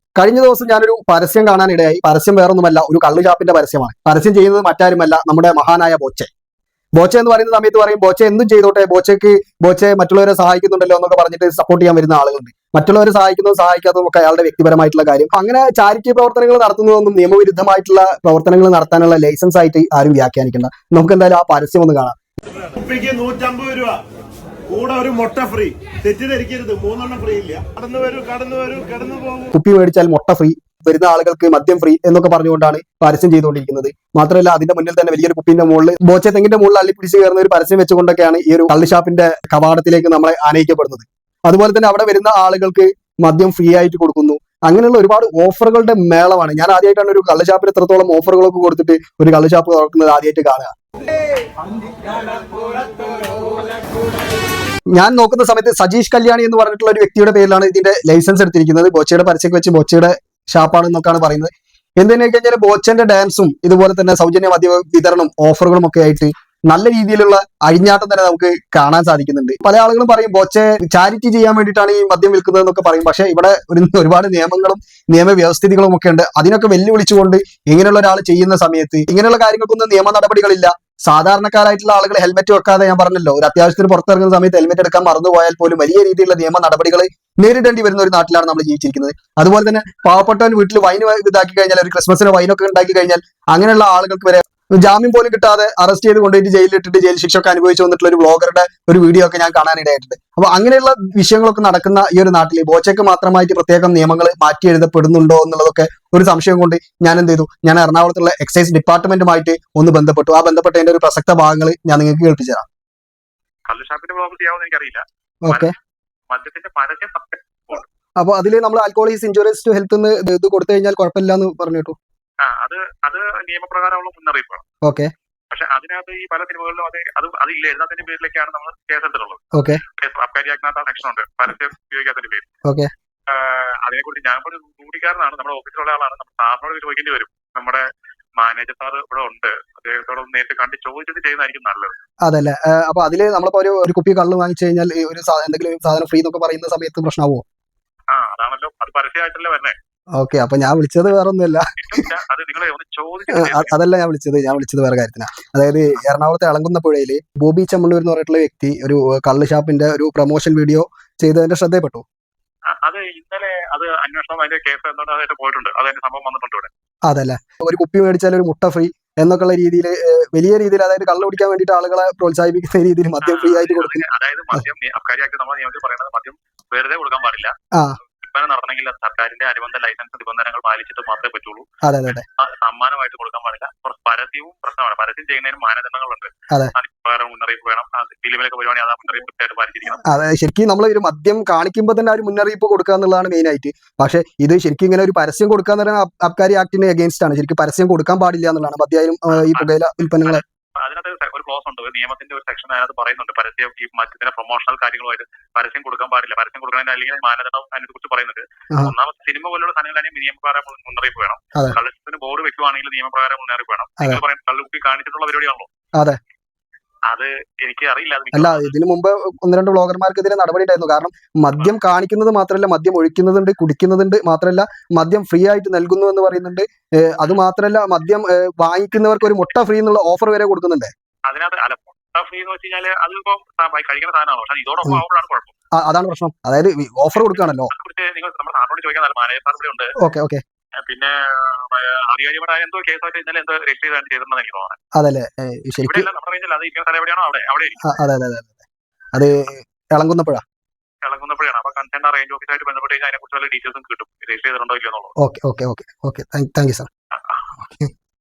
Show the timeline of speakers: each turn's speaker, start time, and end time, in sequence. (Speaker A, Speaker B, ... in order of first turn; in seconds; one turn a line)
Speaker A: 0.2-6.3
Speaker A: 7.0-22.2
Speaker B: 22.7-24.0
Speaker B: 24.7-29.4
Speaker A: 29.5-50.8
Speaker A: 54.9-112.7
Speaker C: 113.7-115.8
Speaker A: 115.4-115.7
Speaker C: 116.3-117.9
Speaker A: 118.2-122.0
Speaker C: 122.4-124.6
Speaker A: 124.8-125.1
Speaker C: 125.5-129.4
Speaker A: 129.5-129.8
Speaker C: 130.0-132.5
Speaker C: 133.3-137.8
Speaker C: 138.4-141.9
Speaker A: 142.2-147.4
Speaker C: 148.1-149.8
Speaker A: 150.2-152.1
Speaker C: 151.8-153.8
Speaker A: 153.3-162.0
Speaker C: 162.8-166.7
Speaker A: 167.1-174.0
Speaker C: 173.2-177.5
Speaker A: 177.7-178.0
Speaker C: 178.2-181.7
Speaker A: 181.8-182.2
Speaker C: 182.4-190.0
Speaker A: 190.1-200.4
Speaker C: 199.3-215.7
Speaker C: 217.1-218.7
Speaker A: 218.3-230.9
Speaker C: 231.3-235.5
Speaker A: 235.8-237.7
Speaker C: 237.2-239.9
Speaker A: 240.0-240.4
Speaker C: 240.9-244.8
Speaker A: 244.9-246.1
Speaker C: 245.8-247.8
Speaker A: 247.8-248.6
Speaker A: 249.1-250.4
Speaker C: 251.1-255.1
Speaker A: 255.2-256.9